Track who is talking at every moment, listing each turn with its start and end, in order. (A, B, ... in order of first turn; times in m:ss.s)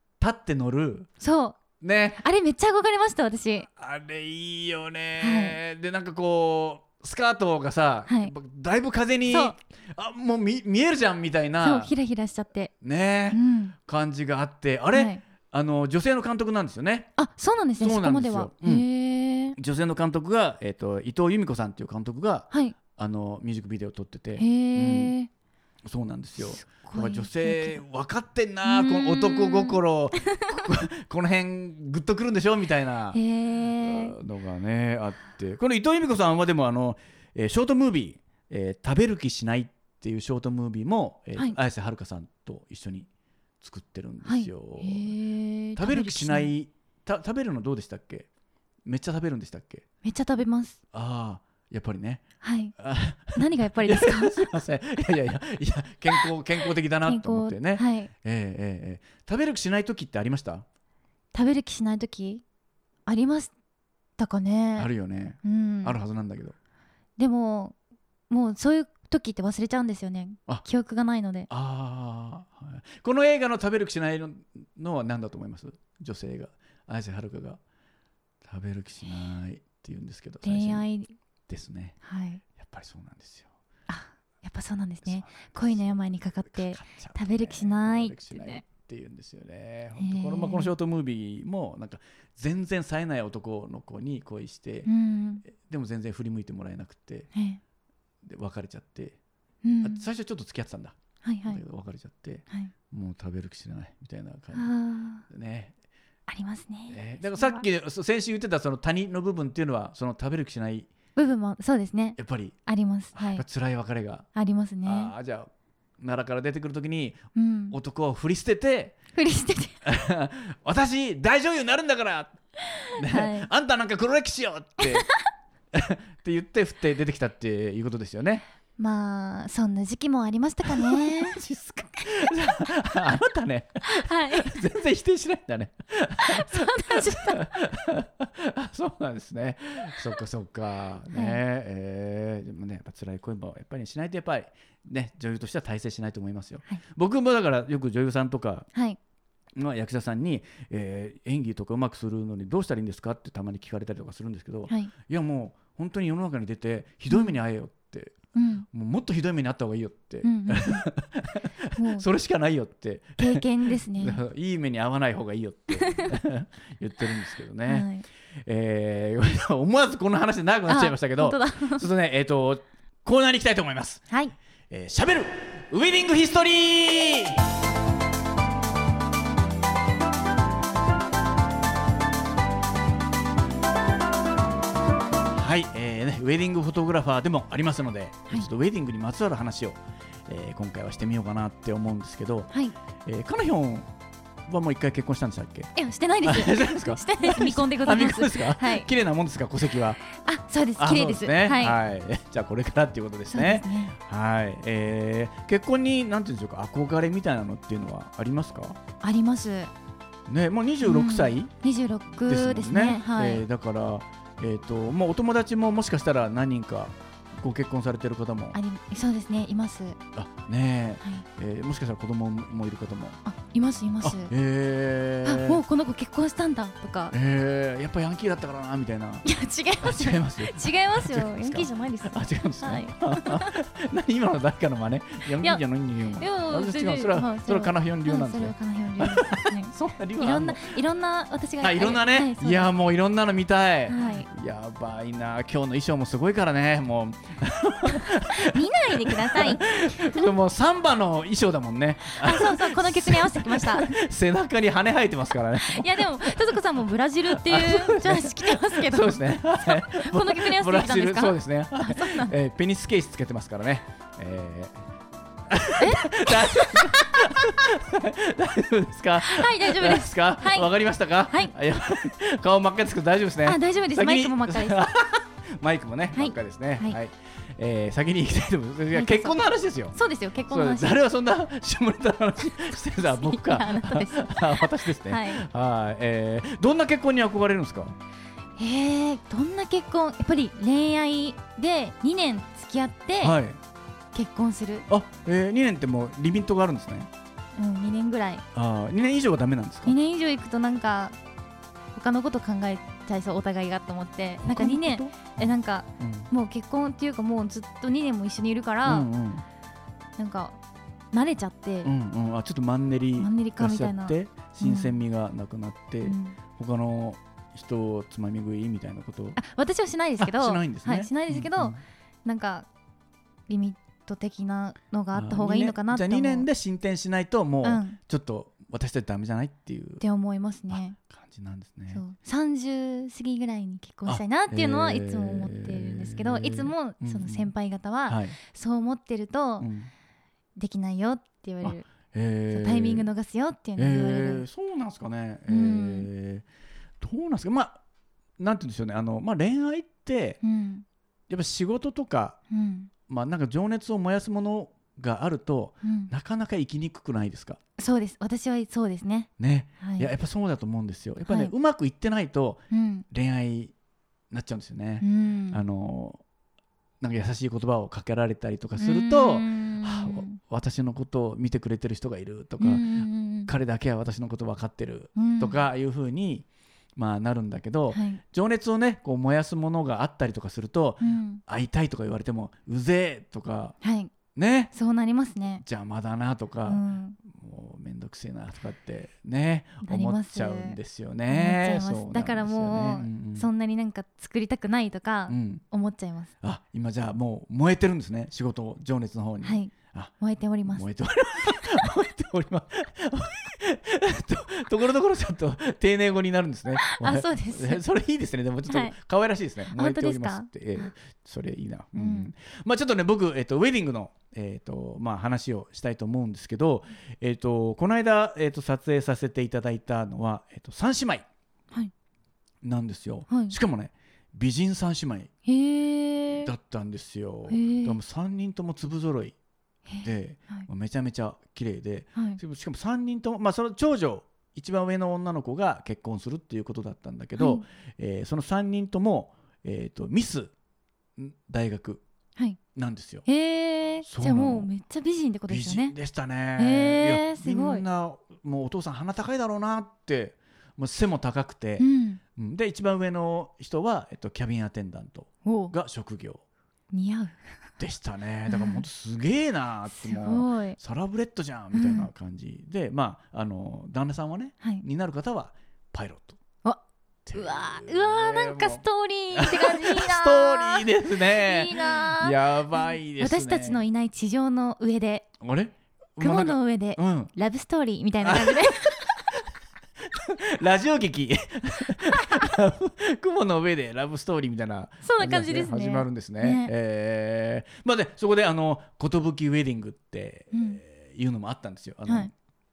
0:00.2-0:01.1 A
0:01.2-0:01.6 B
0:01.8-0:02.2 A
0:02.2-0:03.7 B
0:03.7-0:11.9 A
0:05.2-0:05.6 B
0:08.1-0:08.3 B
0:09.3-0:09.6 B
0:11.6-0:12.7 B
0:12.8-0:17.2 A
0:13.3-0:13.8 B
0:14.9-0:15.2 B
0:17.2-0:19.6 B
0:17.8-0:18.9 A
0:19.6-0:25.2 A
0:22.5-0:22.8 B
0:24.4-0:25.3 B
0:25.9-0:33.2 A
0:26.4-0:27.8 B
0:28.6-0:29.8 B
0:33.1-0:34.2 B
0:33.8-0:43.1 A
0:43.6-0:45.1 A
0:44.2-0:46.5 B
0:45.8-0:48.3 A
0:48.9-0:49.9 A
0:50.0-0:50.8 B
0:50.9-0:52.2 A
0:52.4-0:52.8 B
0:52.8-1:00.6 A
0:53.3-0:54.4 B
0:57.0-0:58.1 B
1:01.3-1:02.4 B
1:03.1-1:03.5 B
1:04.2-1:04.9 B
1:04.8-1:06.6 A
1:05.4-1:06.0 B
1:07.2-1:07.8 B
1:08.3-1:11.5 B
1:11.5-1:17.6 A
1:18.4-1:20.9 A
1:20.4-1:21.1 B
1:21.5-1:22.0 A
1:22.0-1:22.4 B
1:22.5-1:23.5 A
1:23.9-1:28.6 B
1:25.0-1:34.9 A
1:30.0-1:30.7 B
1:34.9-1:35.4 B
1:35.4-1:37.3 A
1:37.3-1:37.6 B
1:38.2-1:39.2 A
1:39.6-1:40.0 B
1:39.8-1:44.7 A
1:41.2-1:41.6 B
1:44.5-1:45.2 B
1:45.2-1:45.7 A
1:46.3-1:47.7 B
1:46.9-1:50.9 A
1:51.2-1:53.4 B
1:52.2-1:52.6 A
1:53.1-1:54.3 A
1:54.4-1:55.1 B
1:54.8-1:59.0 A
1:57.4-1:57.8 B
1:59.2-1:59.8 B
1:59.8-2:02.4 A
2:02.9-2:05.1 A
2:03.0-2:03.5 B
2:04.8-2:05.1 B
2:05.7-2:08.4 A
2:08.8-2:11.4 B
2:10.7-2:28.7 A
2:13.8-2:14.6 B
2:16.3-2:17.4 B
2:21.1-2:21.4 B
2:29.6-2:47.9 A
2:37.1-2:37.4 B
2:38.4-2:38.7 B
2:40.2-2:40.9 B
2:41.8-2:42.1 B
2:43.2-2:44.2 B
2:45.8-2:46.2 B
2:47.7-2:48.0 B
2:48.4-2:54.0 A
2:50.7-2:51.8 B
2:54.1-2:54.4 B
2:54.7-2:57.4 A
3:05.3-3:12.5 A
3:13.0-3:13.9 A
3:14.5-3:20.0 A
3:15.8-3:18.9 B
3:20.1-3:21.8 B
3:20.8-3:28.8 A
3:23.3-3:24.0 B
3:29.0-3:29.7 B
3:30.3-3:31.5 A
3:30.8-3:33.4 B
3:32.3-3:38.6 A
3:38.5-3:40.0 B
3:40.2-3:43.2 A
3:43.2-3:44.3 B
3:44.0-3:45.6 A
3:45.2-3:47.2 B
3:47.1-3:49.3 A
3:49.2-3:53.6 B
3:49.8-4:00.8 A
3:56.2-4:02.7 B
4:01.6-4:16.6 A
4:03.9-4:04.3 B
4:08.3-4:10.1 B
4:12.1-4:13.9 B
4:15.6-4:22.3 B
4:17.3-4:24.8 A
4:25.5-4:40.0 A
4:25.8-4:27.3 B
4:29.2-4:30.7 B
4:33.4-4:34.9 B
4:36.2-4:37.0 B
4:38.9-4:39.4 B
4:39.9-4:41.0 B
4:40.5-4:48.0 A
4:43.0-4:45.4 B
4:48.6-4:53.4 B
4:53.2-4:53.6 A
4:54.1-4:54.9 B
4:54.9-4:57.1 A
4:57.6-4:58.4 B
4:58.6-5:00.0 A
4:59.8-5:01.2 B
5:01.9-5:09.1 B
5:04.4-5:05.4 A
5:06.0-5:06.3 A
5:08.9-5:09.4 A
5:10.2-5:10.6 B
5:11.1-5:11.9 B
5:11.8-5:19.4 A
5:13.2-5:15.0 B
5:16.0-5:16.4 B
5:19.4-5:22.7 B
5:20.2-5:21.8 A
5:23.5-5:26.5 B
5:25.1-5:30.0 A
5:27.6-5:28.0 B
5:30.0-5:31.0 B
5:30.7-5:32.0 A
5:31.9-5:39.7 B
5:34.1-5:37.5 A
5:38.1-5:38.4 A
5:39.6-5:39.9 A
5:40.6-5:41.9 B
5:41.6-5:43.1 A
5:42.5-5:44.4 B
5:43.8-5:46.4 A
5:45.5-5:46.1 B
5:47.0-5:47.8 A
5:48.4-5:50.4 A
5:50.4-5:50.8 B
5:51.3-5:52.4 A
5:52.5-5:52.9 B
5:53.1-5:57.6 A
5:55.8-5:56.1 B
5:57.8-6:00.1 B
5:59.4-6:03.7 A
6:01.3-6:01.5 B
6:02.7-6:03.1 B
6:04.3-6:06.2 A
6:05.0-6:05.6 B
6:07.0-6:16.5 A
6:08.8-6:10.3 B
6:12.6-6:13.5 B
6:15.2-6:15.6 B
6:17.0-6:23.8 A
6:17.9-6:18.2 B
6:21.0-6:21.4 B
6:23.8-6:24.1 B
6:24.3-6:24.7 A
6:24.7-6:25.6 B
6:25.6-6:33.5 A
6:26.7-6:27.2 B
6:29.8-6:36.3 B
6:35.3-6:35.6 A
6:36.4-6:40.1 A
6:39.4-6:40.8 B
6:40.7-7:01.3 A
6:41.5-6:41.8 B
6:46.8-6:47.8 B
6:48.7-6:49.0 B
6:49.7-6:50.9 B
6:52.0-6:52.3 B
7:02.6-7:05.3 A
7:03.3-7:03.6 B
7:05.5-7:06.5 B
7:06.4-7:09.4 A
7:07.5-7:08.0 B
7:09.9-7:10.7 B
7:10.0-7:20.5 A
7:17.4-7:17.6 B
7:21.2-7:22.0 A
7:22.7-7:23.3 A
7:23.3-7:26.0 B
7:24.0-7:24.7 A
7:25.5-7:36.4 A
7:26.6-7:27.8 B
7:31.8-7:32.2 B
7:35.4-7:35.7 B
7:36.9-7:37.4 B
7:37.8-7:46.4 A
7:38.5-7:38.8 B
7:39.9-7:40.8 B
7:41.7-7:42.1 B
7:47.3-7:53.8 A
7:47.3-7:52.4 B
7:53.2-7:55.3 B
7:55.4-7:57.3 A
7:56.2-7:59.1 B
7:58.2-7:59.4 A
8:00.1-8:12.3 A
8:05.0-8:06.7 B
8:10.5-8:10.8 B